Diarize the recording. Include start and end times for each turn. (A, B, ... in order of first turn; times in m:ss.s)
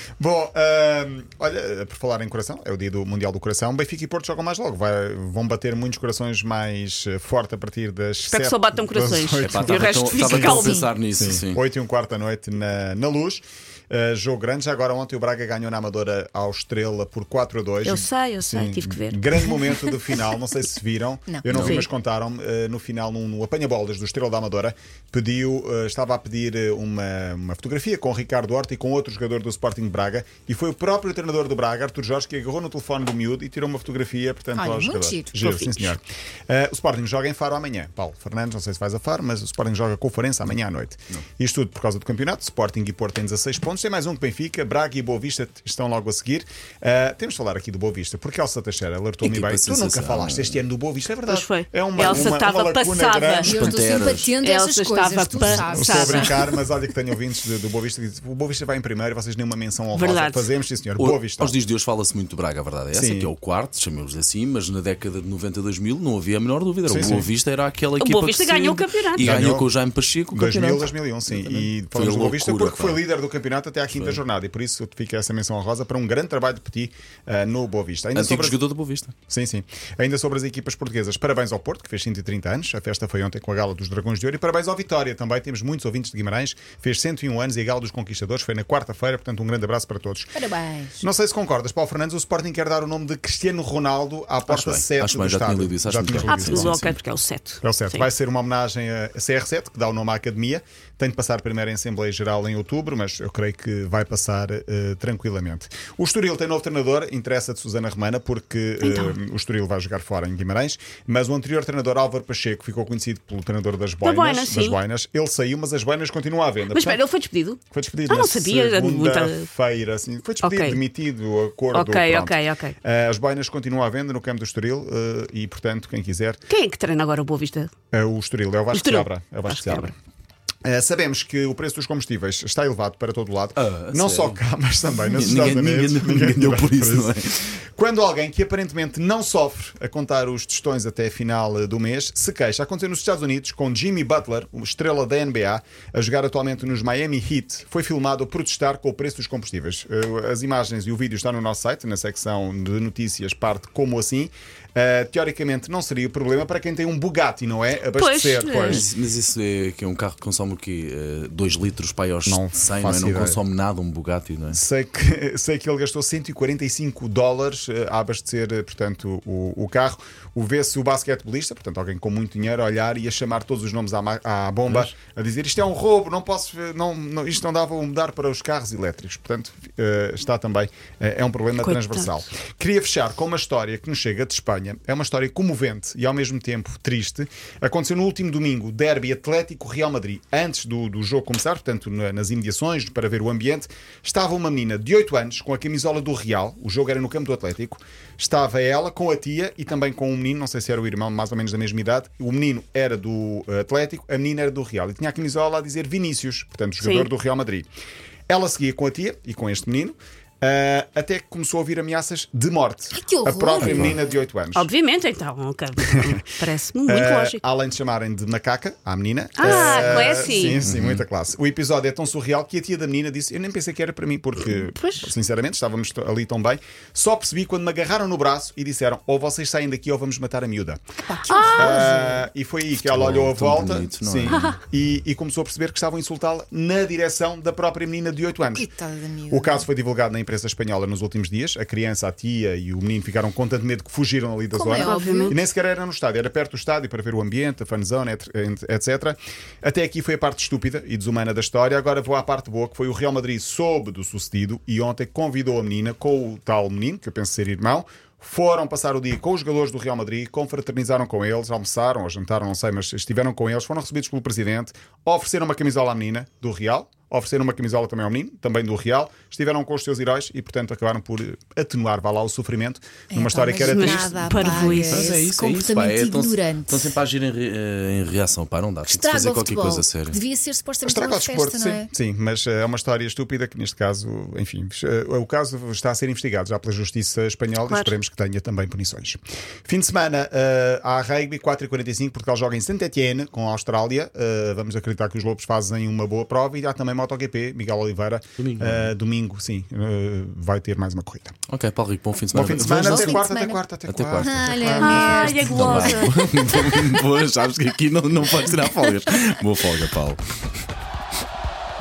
0:00.2-0:53.9 A
0:08.3-0:10.9 B
0:09.4-0:11.6 C
0:17.8-0:19.7 B
0:21.5-0:21.8 C
0:34.6-0:35.3 D
0:35.4-0:35.9 B
0:49.2-0:50.6 C
0:51.3-0:53.5 B
0:53.4-0:56.4 D
0:53.4-0:54.3 C
0:54.4-0:56.4 B
0:55.4-1:01.6 A
0:59.9-1:00.5 B
1:01.0-1:13.0 C
1:02.9-1:03.3 A
1:06.9-1:07.3 A
1:08.0-1:09.3 B
1:09.2-1:09.7 A
1:10.3-1:18.6 A
1:13.9-1:14.2 C
1:18.1-1:19.1 C
1:19.3-1:30.4 A
1:30.4-1:31.0 D
1:31.0-1:37.0 A
1:34.5-1:36.9 C
1:36.2-1:38.1 B
1:37.6-1:57.0 A
1:48.8-1:49.2 B
1:54.0-1:54.8 B
1:56.7-1:59.4 B
1:57.7-2:06.4 A
2:00.4-2:00.8 B
2:01.7-2:02.7 B
2:06.5-2:07.7 B
2:07.9-2:09.9 A
2:08.7-2:09.9 B
2:10.6-2:38.9 A
2:13.6-2:14.4 C
2:15.1-2:17.5 C
2:37.9-2:38.8 B
2:38.7-2:44.6 C
2:42.2-2:43.4 A
2:44.5-3:27.7 A
3:01.6-3:02.1 B
3:26.8-3:27.1 B
3:28.3-3:34.7 A
3:32.9-3:34.0 D
3:34.6-3:37.4 B
3:36.9-3:50.8 A
3:39.4-3:40.6 B
3:39.5-3:39.8 C
3:40.6-3:41.0 C
3:44.5-3:45.1 B
3:51.0-3:52.2 D
3:51.3-3:51.8 B
3:51.5-3:58.7 A
3:52.8-3:54.5 C
3:54.3-3:54.6 B
3:58.4-3:59.7 D
3:59.3-4:34.6 A
4:04.5-4:05.4 D
4:04.8-4:05.4 B
4:33.1-4:37.0 D
4:33.6-4:35.1 B
4:34.9-4:40.2 C
4:38.9-4:41.9 D
4:40.8-5:01.3 A
4:47.7-4:48.0 B
4:58.4-4:58.9 C
5:01.5-5:03.2 C
5:02.3-5:05.8 A
5:02.6-5:03.6 D
5:03.9-5:10.2 C
5:04.2-5:07.0 D
5:04.8-5:06.2 B